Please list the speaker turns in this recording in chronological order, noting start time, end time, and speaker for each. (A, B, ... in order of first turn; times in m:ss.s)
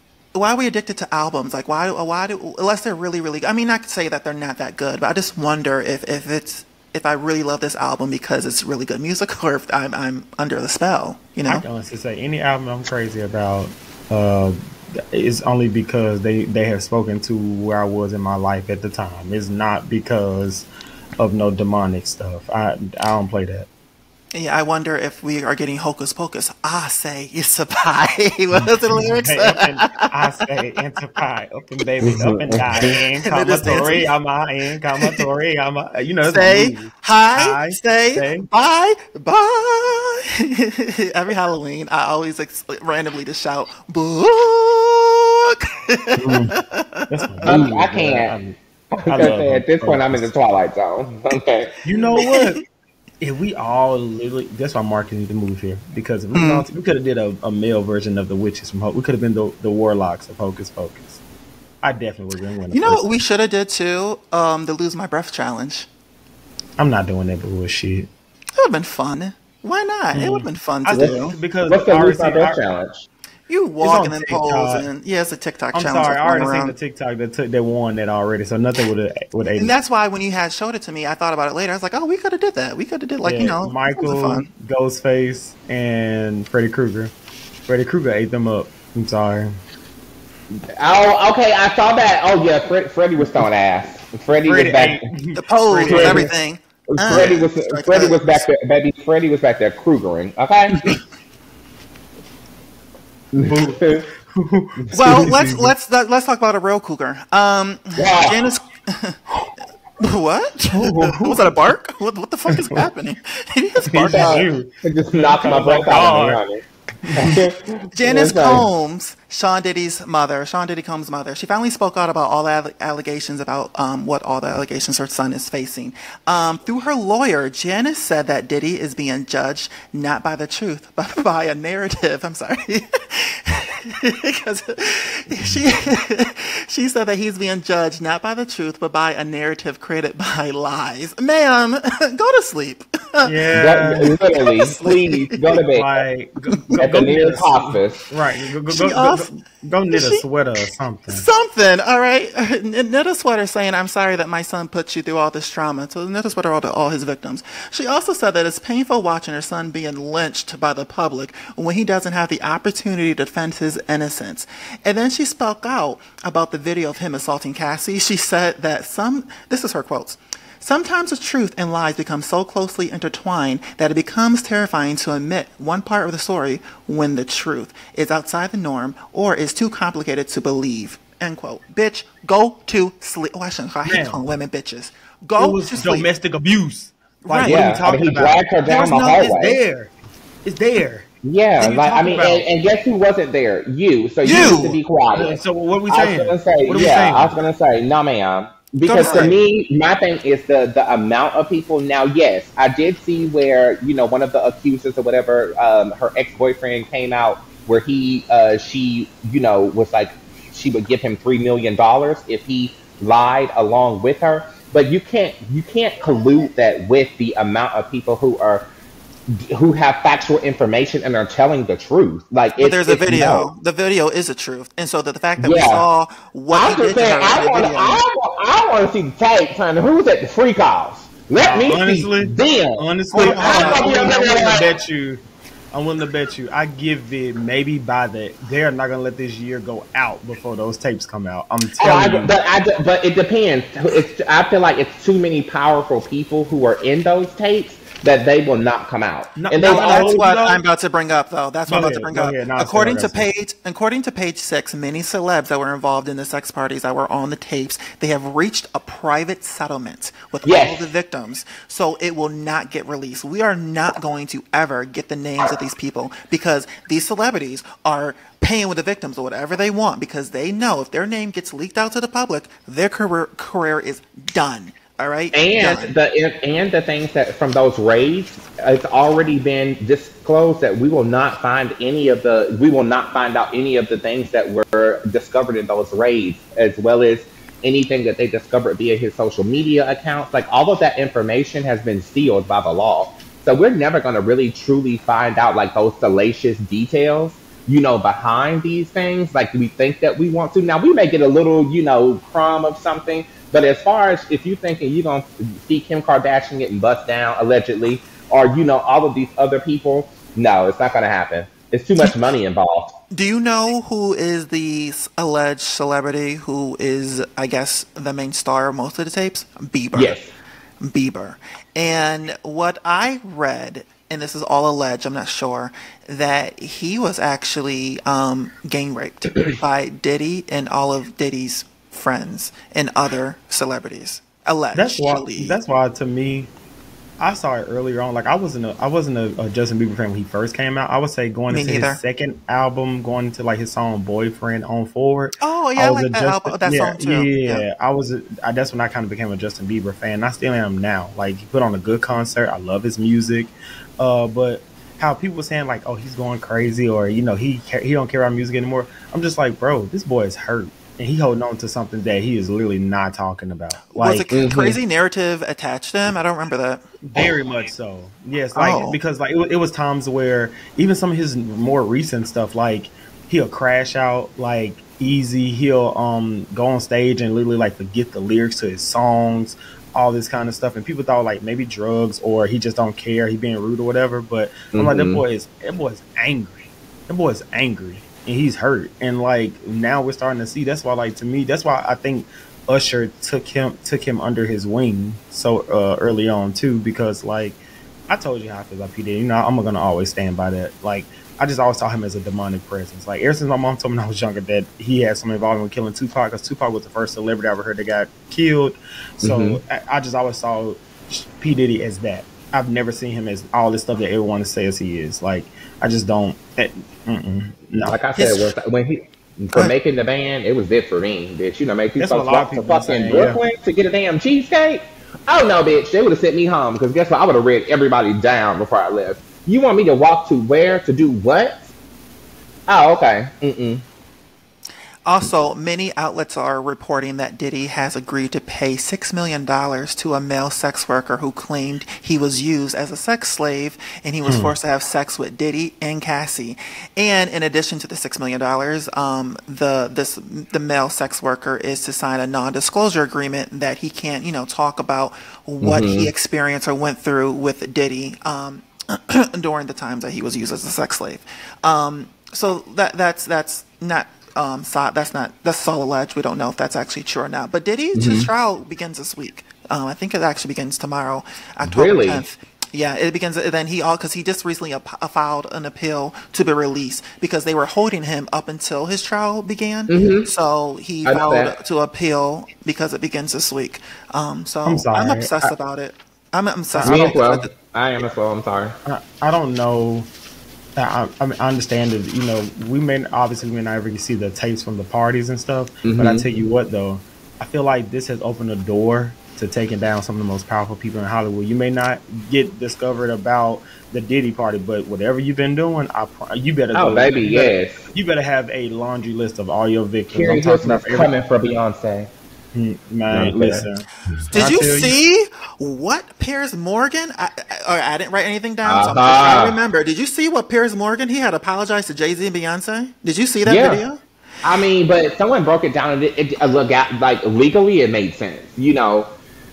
0:00.3-0:11.6 A
0:11.5-0:20.7 B
0:21.2-0:23.7 B
0:24.3-0:30.1 A
0:29.2-0:38.5 B
0:32.0-0:32.9 C
0:32.8-0:34.1 A
0:36.3-0:47.6 A
0:46.2-0:48.6 B
0:47.4-0:48.4 C
0:48.9-0:51.7 C
0:49.1-0:50.3 B
0:51.8-0:52.6 B
0:52.2-0:52.6 A
0:53.2-1:01.2 B
0:56.3-0:56.6 A
1:01.8-1:03.0 B
1:02.7-1:05.9 A
1:06.8-1:08.1 B
1:08.6-1:11.4 A
1:10.1-1:12.6 B
1:11.0-1:13.1 C
1:13.5-1:16.7 A
1:13.8-1:14.8 B
1:15.7-1:19.7 B
1:19.6-1:24.5 A
1:23.2-1:27.1 B
1:27.7-1:29.5 B
1:30.7-1:35.0 C
1:34.4-1:36.3 B
1:35.3-1:38.4 A
1:35.8-1:36.3 C
1:36.9-1:41.0 C
1:43.3-1:44.0 C
1:43.3-1:45.7 B
1:44.9-1:49.2 A
1:48.0-1:48.4 C
1:50.0-1:54.5 A
1:50.7-1:51.5 B
1:52.5-1:52.8 B
1:53.9-1:58.6 C
1:54.1-1:56.4 B
1:57.0-1:57.4 B
1:57.9-2:25.6 A
2:23.2-2:24.1 B
2:23.5-2:26.0 C
2:25.7-2:31.2 B
2:26.8-2:28.0 C
2:28.7-2:29.3 A
2:29.9-2:30.2 A
2:31.1-3:06.1 A
3:03.8-3:04.2 B
3:05.4-3:09.9 B
3:07.2-3:07.6 A
3:07.4-3:09.6 C
3:10.4-3:11.1 B
3:11.2-3:38.7 C
3:11.6-3:12.4 B
3:14.2-3:14.8 A
3:15.1-3:17.4 B
3:18.8-3:19.3 B
3:39.3-3:43.5 C
3:42.6-3:48.0 A
3:45.4-3:45.8 C
3:46.5-3:54.7 C
3:51.4-3:55.2 B
3:53.1-3:54.2 A
3:55.7-4:02.3 B
4:01.8-4:10.1 C
4:09.4-4:10.6 B
4:09.6-4:35.9 A
4:11.7-4:13.3 B
4:20.4-4:20.9 C
4:35.3-5:13.0 C
5:13.1-5:20.2 A
5:19.9-5:20.3 C
5:20.8-5:35.6 A
5:34.7-5:36.5 B
5:37.2-6:04.2 B
5:41.5-5:42.0 A
5:45.4-5:47.6 A
6:04.0-6:06.8 A
6:04.3-6:04.8 C
6:07.0-6:58.0 B
6:08.5-6:09.0 A
6:24.7-6:25.2 C
6:49.2-6:49.6 C
6:57.8-7:11.6 C
6:58.2-6:58.5 A
7:02.0-7:03.4 B
7:12.7-7:13.8 C
7:15.0-8:07.5 A
7:24.3-7:24.5 B
7:35.6-7:36.1 C
7:47.9-7:48.3 C
7:51.6-7:52.2 C
7:59.9-8:00.3 C
8:01.0-8:01.5 C
8:04.6-8:05.3 B
8:06.7-8:07.1 B
8:06.8-8:08.8 C
8:08.8-8:10.1 B
8:10.8-8:31.1 B
8:15.8-8:16.3 C
8:26.7-8:27.9 C
8:30.1-8:32.1 C
8:32.5-8:35.0 B
8:33.1-8:33.7 C
8:34.3-8:44.0 A
8:38.6-8:39.6 C
8:43.4-8:43.8 C
8:44.4-8:49.1 C